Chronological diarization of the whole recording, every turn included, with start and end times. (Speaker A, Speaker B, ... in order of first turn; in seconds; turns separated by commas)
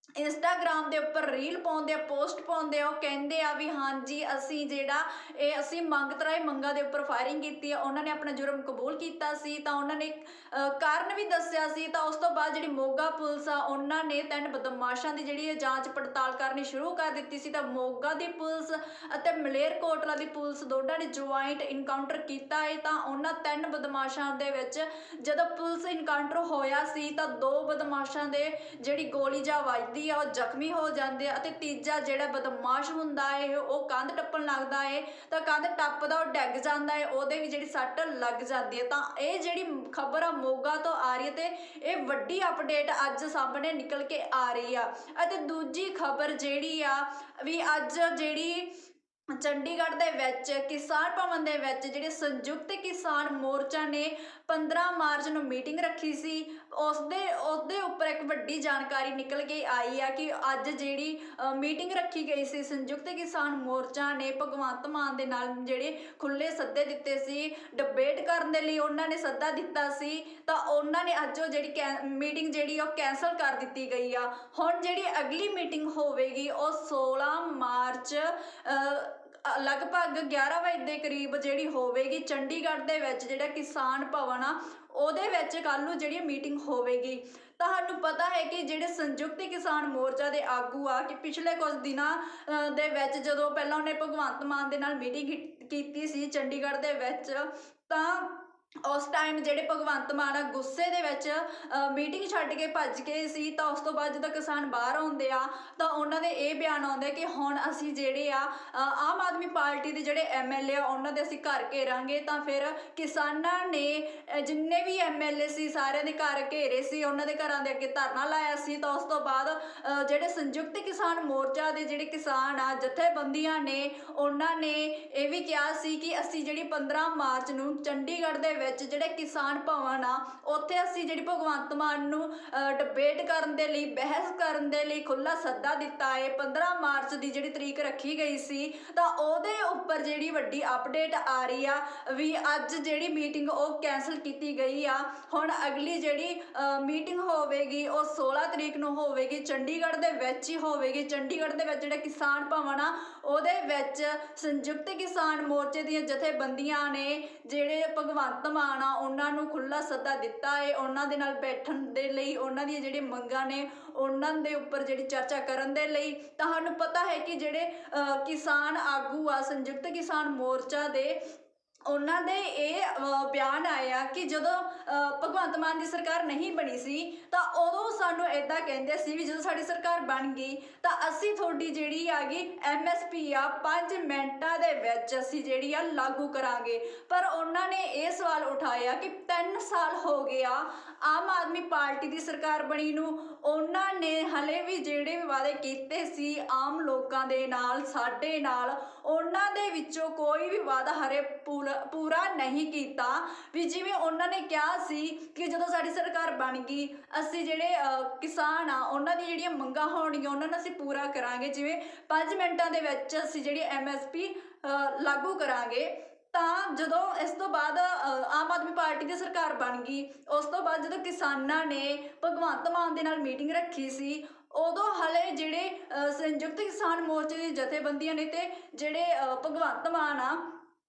Speaker A: 0.2-48.7, Speaker A: 49.4-171.2, Speaker A: 171.9-230.6